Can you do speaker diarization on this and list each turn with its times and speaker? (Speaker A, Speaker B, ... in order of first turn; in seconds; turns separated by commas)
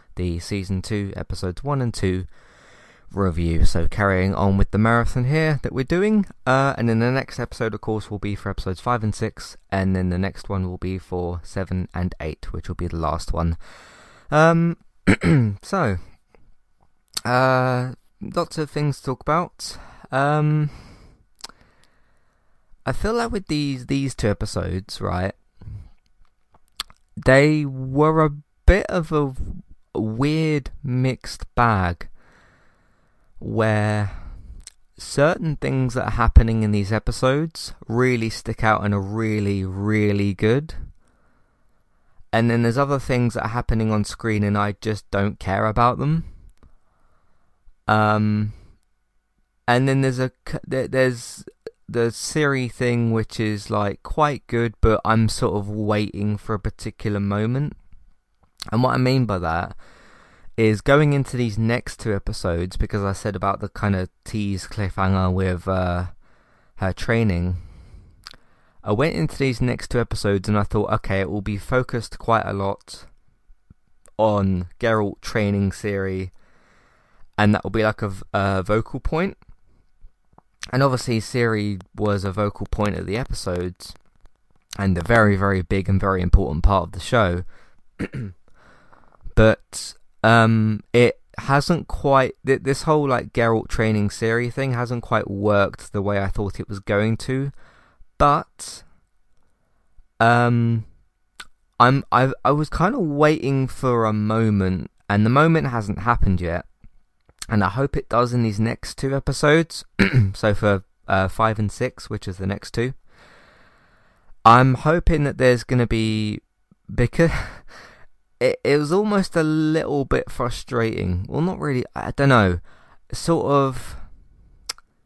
Speaker A: 0.1-2.3, Speaker A: 3.1-13.6, Speaker A: 14.3-16.0, Speaker A: 17.2-20.9, Speaker A: 22.9-25.4, Speaker A: 27.2-32.1, Speaker A: 33.4-34.3, Speaker A: 35.0-40.9, Speaker A: 42.3-46.3, Speaker A: 47.9-48.5, Speaker A: 49.7-57.8, Speaker A: 58.7-59.8, Speaker A: 60.6-66.1, Speaker A: 66.8-67.6, Speaker A: 68.8-73.1, Speaker A: 74.2-76.3, Speaker A: 77.4-79.4, Speaker A: 80.7-84.0, Speaker A: 84.8-87.4, Speaker A: 88.0-88.3, Speaker A: 89.3-97.5, Speaker A: 98.2-98.8, Speaker A: 100.2-100.9, Speaker A: 101.8-106.6, Speaker A: 107.5-113.0, Speaker A: 114.4-117.7, Speaker A: 118.4-124.0